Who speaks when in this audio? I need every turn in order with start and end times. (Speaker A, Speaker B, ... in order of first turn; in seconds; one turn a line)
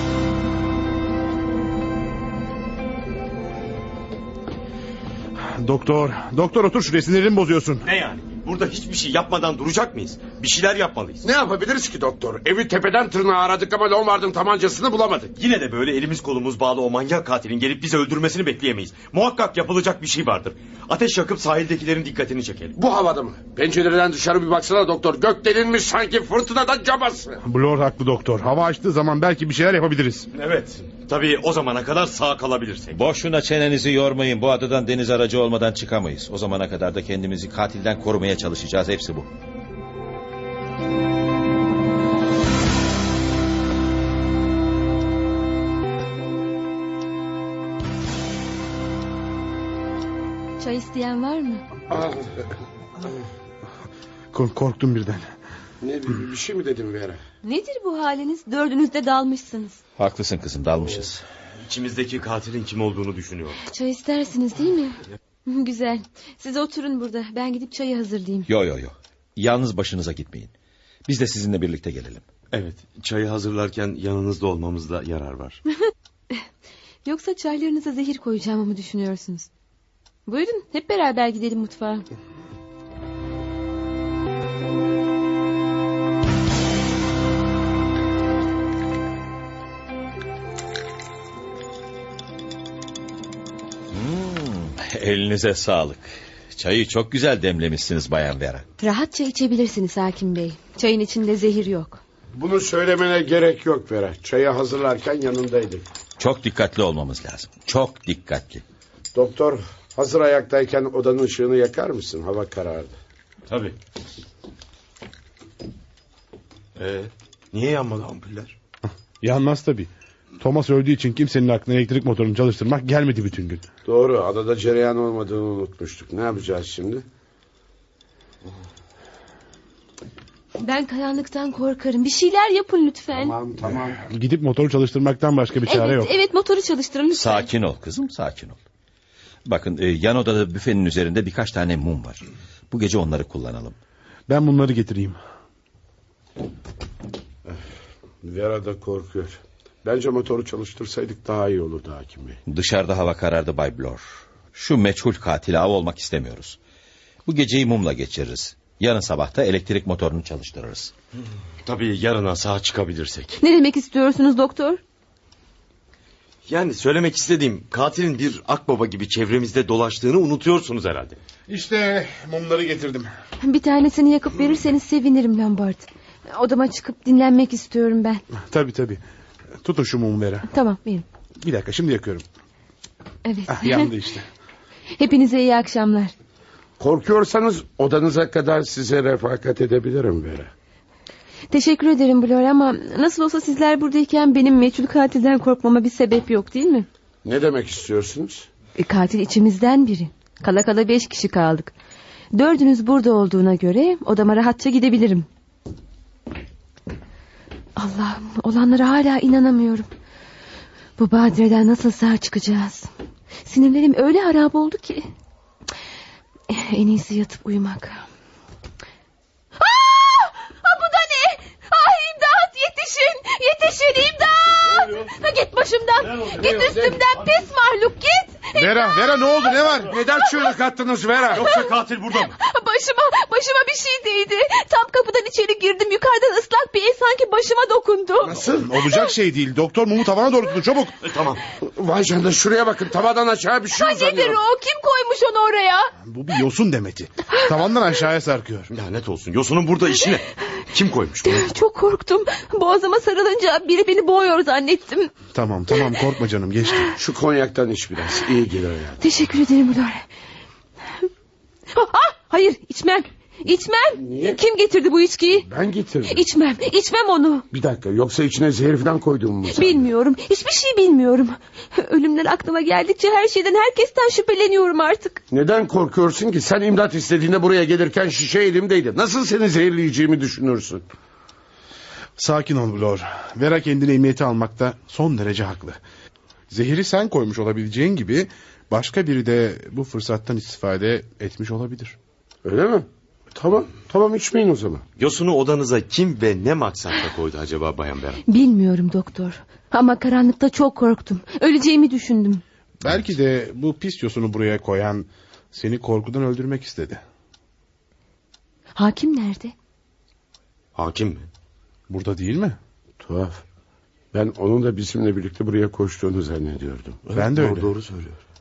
Speaker A: 5.5-7.8
Speaker B: 7.8-11.3
Speaker C: 11.2-15.3
Speaker B: 15.3-22.8
Speaker C: 22.8-27.4
Speaker A: 27.4-30.3
Speaker B: 30.3-33.0
Speaker D: 32.9-39.3
Speaker E: 50.6-51.6
Speaker C: 51.9-52.3
Speaker A: 54.3-55.2
Speaker C: 55.8-57.2
Speaker E: 57.4-59.8
Speaker D: 60.0-61.2
Speaker B: 61.6-63.6
Speaker E: 63.7-68.5
Speaker D: 68.5-70.5
Speaker D: 71.1-72.2
Speaker B: 72.5-75.6
Speaker E: 77.0-79.5
Speaker E: 80.2-82.1
Speaker D: 93.9-98.6
Speaker E: 98.8-102.0
Speaker C: 102.3-105.9
Speaker D: 106.2-108.6
Speaker C: 109.1-113.0
Speaker B: 113.5-113.8
Speaker B: 116.8-118.5
Speaker A: 119.2-123.7
Speaker C: 123.8-127.0
Speaker E: 130.6-133.3
Speaker C: 133.1-134.0
Speaker A: 133.9-136.1
Speaker E: 135.7-137.5
Speaker D: 137.2-138.6
Speaker D: 139.5-143.8
Speaker A: 144.3-145.2
Speaker C: 148.2-152.4
Speaker D: 152.5-154.0
Speaker D: 154.5-156.6
Speaker D: 157.2-160.9
Speaker B: 161.6-163.4
Speaker E: 163.4-164.8
Speaker B: 166.5-171.2
Speaker A: 171.5-173.1
Speaker E: 173.4-178.2
Speaker A: 178.5-179.0
Speaker A: 179.6-180.5
Speaker E: 180.5-181.1
Speaker A: 181.4-182.2
Speaker E: 183.2-183.9
Speaker A: 183.5-184.2
Speaker E: 184.9-186.1
Speaker C: 186.8-190.5
Speaker E: 191.5-196.9
Speaker C: 197.2-198.5
Speaker E: 198.8-201.7
Speaker E: 202.3-205.3
Speaker E: 207.8-209.9
Speaker E: 211.0-212.9
Speaker E: 213.4-215.1
Speaker E: 216.5-218.1
Speaker E: 219.6-230.5
Speaker B: 226.1-226.9
Speaker A: 228.6-229.9
Speaker C: 229.9-231.5
Speaker B: 231.3-232.4
Speaker E: 231.4-231.7
Speaker E: 232.3-239.1
Speaker C: 238.2-238.7
Speaker A: 238.5-241.0
Speaker B: 241.0-241.4
Speaker C: 241.6-244.4
Speaker E: 243.8-245.9
Speaker A: 246.1-248.7
Speaker B: 248.7-251.5
Speaker E: 251.2-255.1
Speaker A: 255.3-256.9
Speaker C: 256.9-259.0
Speaker E: 259.0-260.1
Speaker E: 261.7-265.5
Speaker C: 264.0-264.4
Speaker C: 265.4-266.2
Speaker E: 266.1-267.5
Speaker C: 267.5-269.9
Speaker E: 269.5-275.2
Speaker C: 275.3-280.8
Speaker A: 282.2-285.8
Speaker A: 286.5-292.0
Speaker C: 292.4-294.8
Speaker B: 295.0-298.2
Speaker E: 298.3-302.4
Speaker A: 302.8-307.0
Speaker E: 308.8-309.5
Speaker B: 310.8-311.3
Speaker A: 311.9-312.6
Speaker C: 313.0-313.4
Speaker C: 314.1-317.1
Speaker B: 317.1-318.2
Speaker A: 317.1-317.7